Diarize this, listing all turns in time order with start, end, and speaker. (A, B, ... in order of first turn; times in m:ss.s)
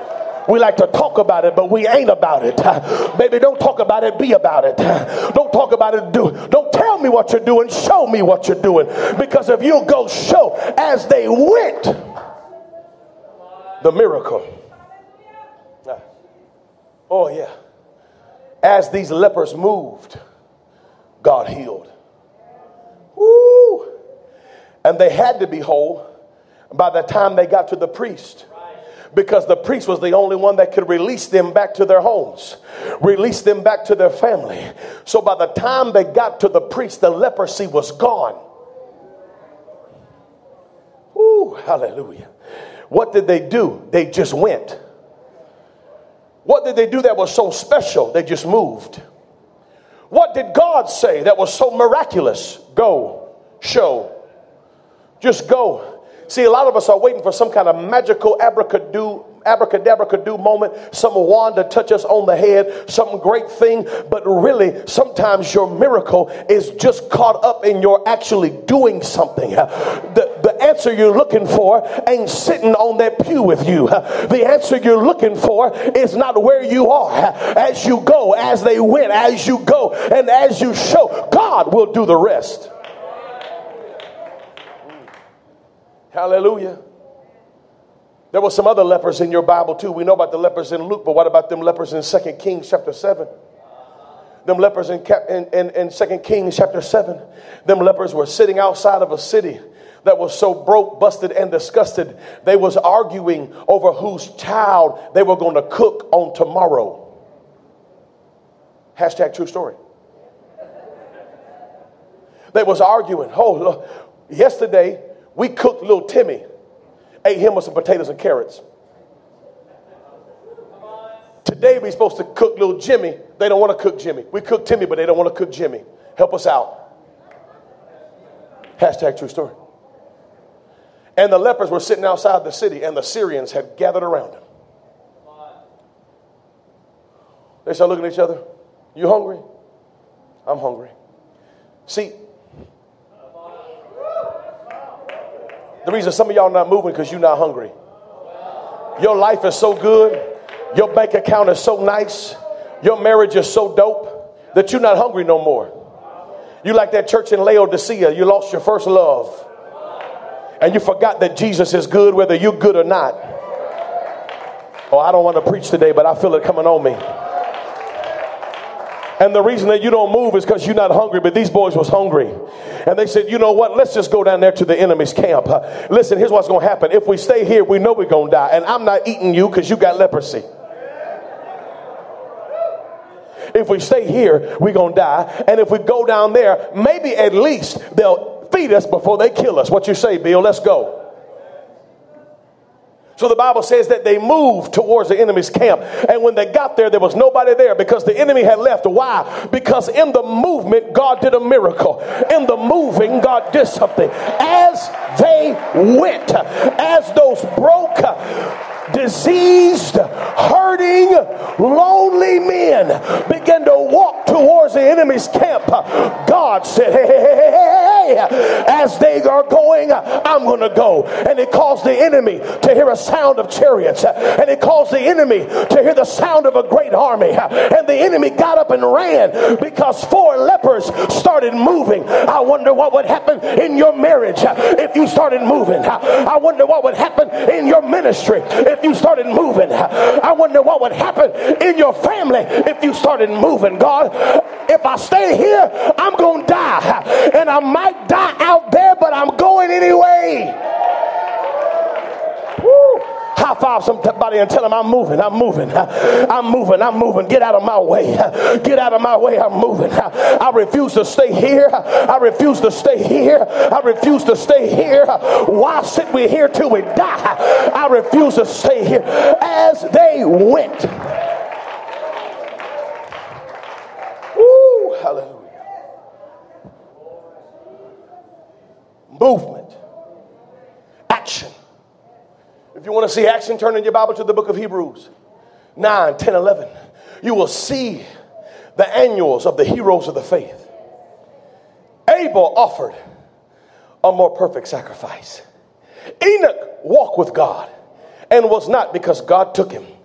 0:00.4-0:12.0 A
0:13.8-0:14.5 A
0:17.1-0:17.5 A
0:18.6-0:20.2 A
0:21.2-0:21.9 A
0:23.2-0:23.9 A
0:24.8-0:26.0 A
0:26.7-0:28.4 A
0:29.1-0:38.4 A
0:41.1-0:42.3 A
0:42.9-0:44.8 A
0:46.4-0:49.0 A
0:50.1-0:54.1 A
0:55.2-1:22.7 A
1:26.1-1:26.8 A
1:28.3-1:33.3 A
1:34.4-1:47.1 A
1:49.0-1:49.8 A
1:52.5-1:56.4 A
1:57.2-1:58.6 A
2:01.4-2:06.8 A
2:08.8-2:09.6 A
2:11.2-2:14.4 A
2:17.6-2:18.4 A
2:18.9-2:19.4 A
2:20.4-2:20.9 A
2:21.9-2:22.2 A
2:25.8-2:27.7 A
2:29.0-2:30.2 A
2:30.7-2:35.7 A
2:36.6-2:39.4 A
2:40.6-2:43.2 A
2:44.9-2:47.0 A
2:49.2-3:00.4 A
3:03.5-3:11.0 A
3:13.2-4:10.6 A
4:12.6-4:31.1 A
4:34.3-4:35.6 A
4:39.1-4:39.8 A
4:41.1-4:41.5 A
4:42.7-4:45.1 A
4:45.8-4:46.7 A
4:47.2-4:48.1 A
4:48.7-4:50.7 A
4:52.1-4:53.0 A
4:54.0-4:55.4 A
4:56.2-4:57.7 A
4:58.3-4:59.9 A